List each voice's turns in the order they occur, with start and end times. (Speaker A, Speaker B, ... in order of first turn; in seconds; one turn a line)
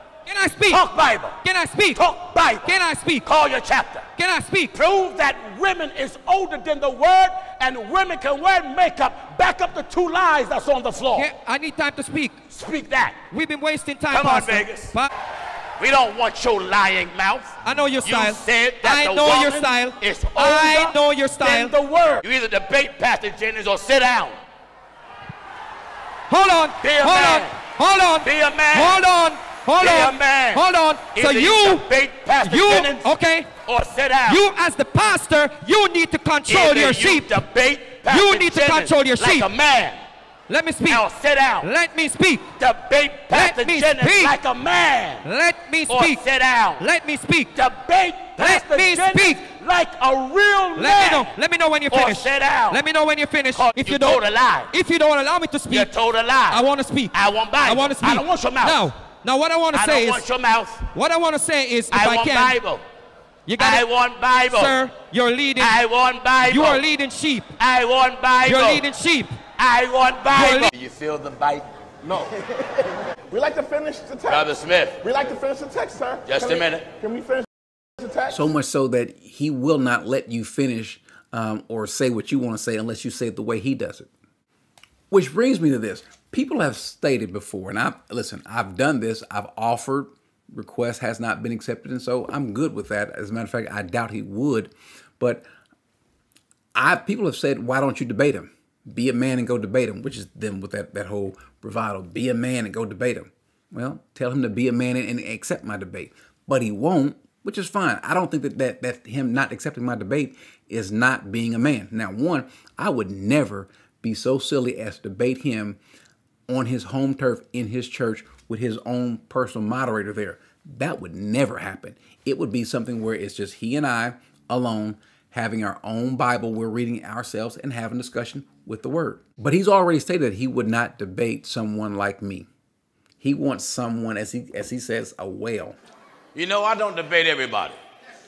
Speaker A: 0.3-0.8
Speaker B: 0.7-1.4
Speaker A: 1.4-2.1
Speaker B: 1.9-2.7
Speaker A: 2.6-3.3
Speaker B: 3.2-4.1
Speaker A: 4.2-4.8
Speaker B: 4.7-11.3
Speaker A: 11.1-12.4
Speaker B: 12.5-13.2
Speaker A: 13.3-15.1
Speaker B: 14.1-14.9
Speaker B: 15.8-24.4
Speaker A: 17.6-21.8
Speaker A: 26.3-31.9
Speaker B: 26.8-27.6
Speaker B: 28.2-29.0
Speaker B: 29.8-33.1
Speaker A: 32.4-33.5
Speaker B: 33.6-34.5
Speaker A: 34.3-37.4
Speaker B: 36.5-40.0
Speaker A: 38.0-39.5
Speaker A: 40.5-41.0
Speaker B: 40.9-41.7
Speaker A: 41.6-42.5
Speaker B: 42.6-45.3
Speaker A: 43.3-44.4
Speaker A: 45.2-46.2
Speaker B: 45.9-46.9
Speaker A: 46.8-47.5
Speaker B: 47.5-52.9
Speaker A: 48.4-49.4
Speaker A: 50.8-55.9
Speaker B: 53.5-54.7
Speaker B: 55.7-58.9
Speaker A: 56.5-60.2
Speaker B: 59.7-60.9
Speaker A: 60.9-62.6
Speaker B: 61.9-62.9
Speaker A: 63.5-63.9
Speaker B: 63.6-64.8
Speaker A: 64.5-65.8
Speaker B: 65.6-66.8
Speaker A: 66.4-67.5
Speaker B: 67.6-68.8
Speaker A: 68.4-69.4
Speaker B: 69.6-71.7
Speaker A: 70.3-70.7
Speaker C: 72.1-74.5
Speaker B: 74.3-75.0
Speaker C: 75.0-77.5
Speaker B: 76.3-76.9
Speaker C: 78.0-78.4
Speaker D: 78.3-84.1
Speaker D: 85.1-95.5
Speaker D: 96.7-115.8
Speaker D: 116.5-132.5
Speaker D: 133.2-135.8
Speaker B: 136.3-137.8